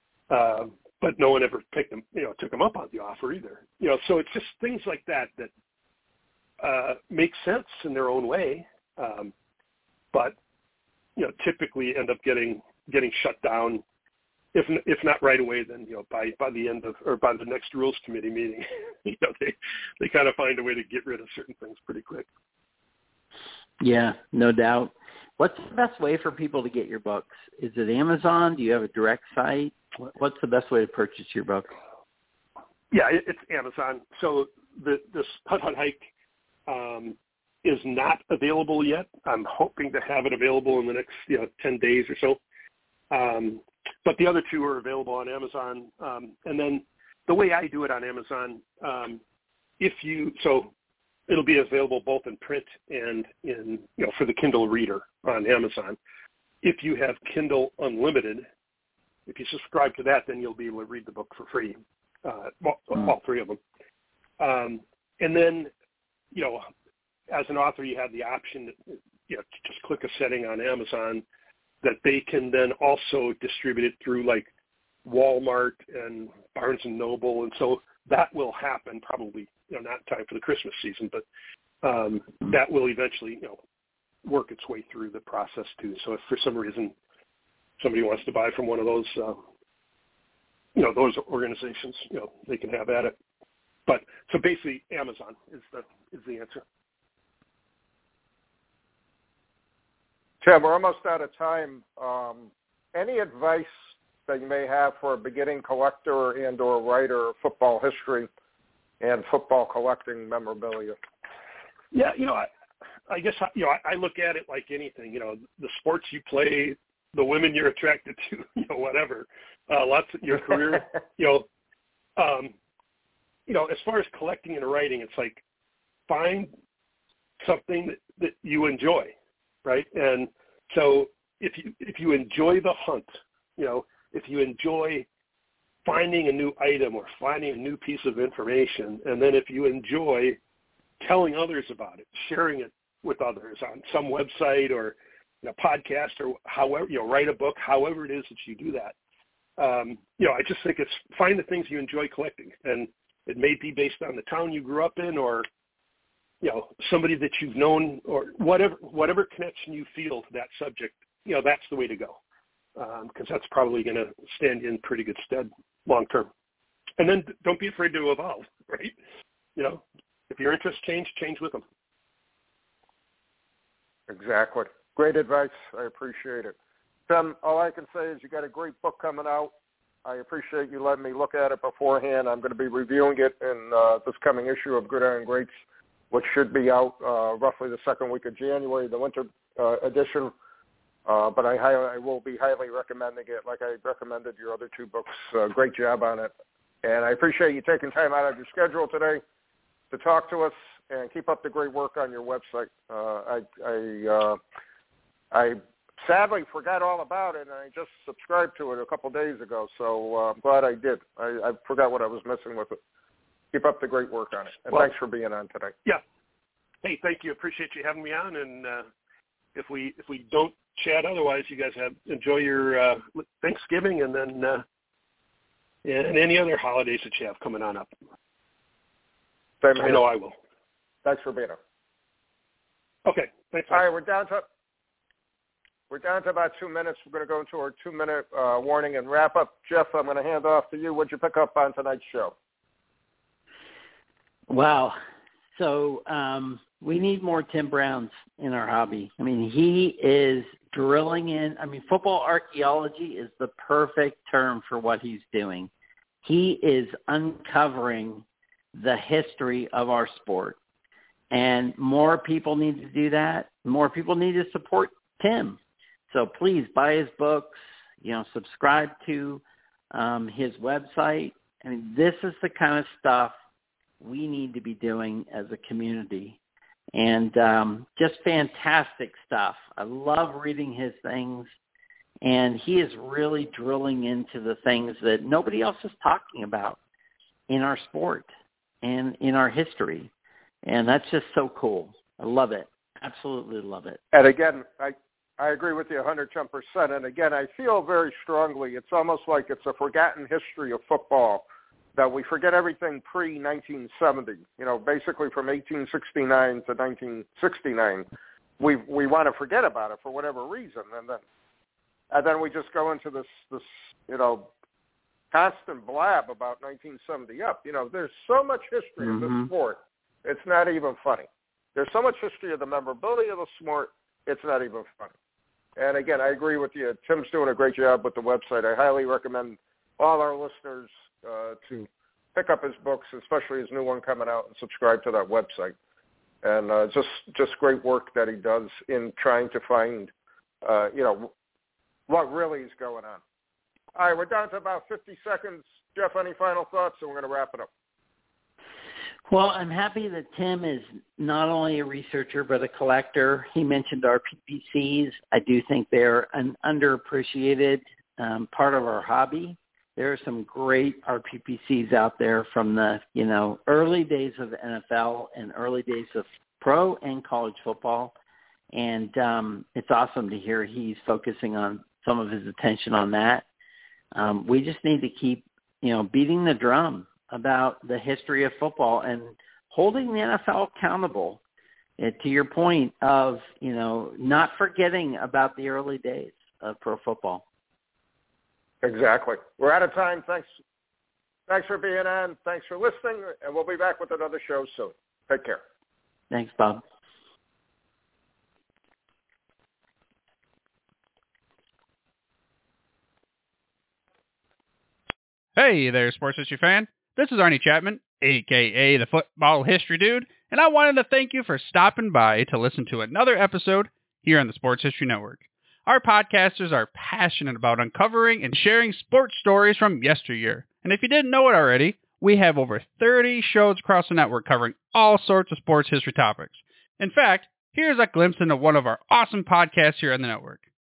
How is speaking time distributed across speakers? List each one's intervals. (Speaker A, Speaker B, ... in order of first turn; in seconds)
Speaker A: 0.3-5.5, 6.6-9.3, 11.2-13.8, 14.5-22.3, 32.9-36.0, 36.7-42.4, 43.1-49.2, 49.8-50.7, 51.3-56.0, 56.6-58.5, 59.3-63.6, 64.4-65.7, 66.3-66.7, 67.3-71.2, 71.8-74.5, 75.0-81.2, 81.8-83.6, 84.2-86.9, 87.8-89.4, 90.8-93.1, 93.9-96.6, 111.9-112.5, 113.1-121.5, 122.2-122.5, 123.5-125.4, 126.1-126.5, 127.4-129.1, 129.6-135.1, 135.8-140.4, 141.0-148.9, 149.6-155.5, 156.4-162.2, 162.8-166.3, 167.0-168.9, 169.6-171.6, 216.8-218.9, 219.6-224.6, 225.8-227.9, 229.7-230.4, 233.1-233.8
Speaker B: 23.8-31.6, 244.5-245.0, 245.6-255.7, 256.2-260.6, 261.3-265.6, 266.1-273.3, 274.0-276.4, 276.9-281.5, 282.2-286.8, 287.5-288.3, 288.8-290.1, 290.6-294.0, 319.0-319.5, 349.3-368.1, 368.7-373.4, 374.1-381.4, 382.0-387.4, 396.3-396.8
Speaker C: 100.4-103.7, 104.3-108.3, 109.0-111.0, 174.1-176.6, 177.1-179.5, 180.1-185.5, 186.1-190.3, 191.1-196.3, 196.8-199.2, 199.9-204.4, 205.3-212.8, 213.5-215.7, 229.6-230.0, 231.0-231.6, 233.7-234.4, 235.9-242.3, 294.1-308.1, 308.6-311.2, 312.1-314.5, 315.3-325.1, 325.8-335.8, 336.4-340.1, 340.6-341.3, 342.1-343.2, 343.9-347.7, 388.8-390.5, 391.5-395.6
Speaker D: 405.6-430.6